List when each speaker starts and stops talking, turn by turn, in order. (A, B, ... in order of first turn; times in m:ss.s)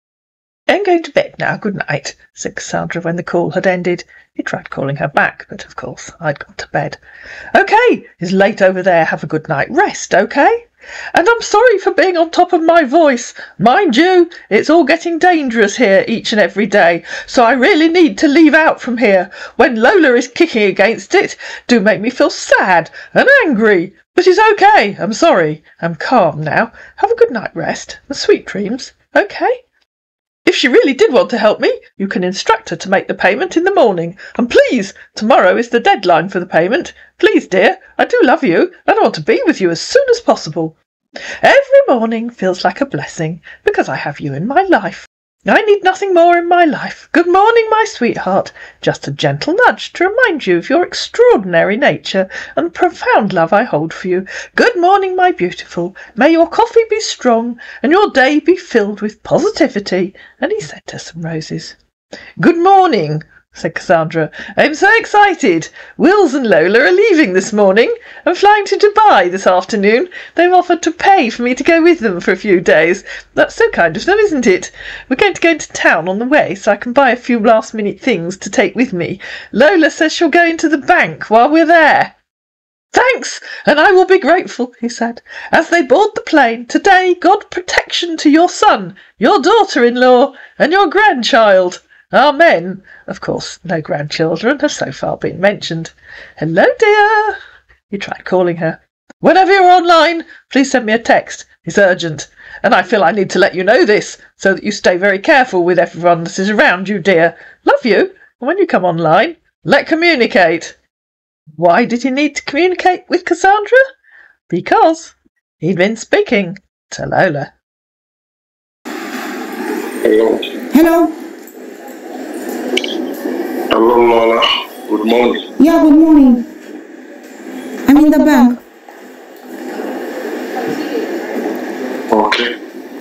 0:00.7-0:07.0 A
0:07.5-0:29.6 A
0:30.4-0:40.8 A
0:41.4-1:01.8 A
1:02.4-1:22.1 A
1:22.9-1:37.4 A
1:37.9-1:50.8 A
1:51.6-1:53.8 A
1:54.5-1:57.5 A
2:00.0-2:00.5 B
2:00.7-2:01.1 C
2:03.7-2:05.4 B
2:05.6-2:06.5 C
2:07.8-2:08.6 C
2:12.1-2:12.5 B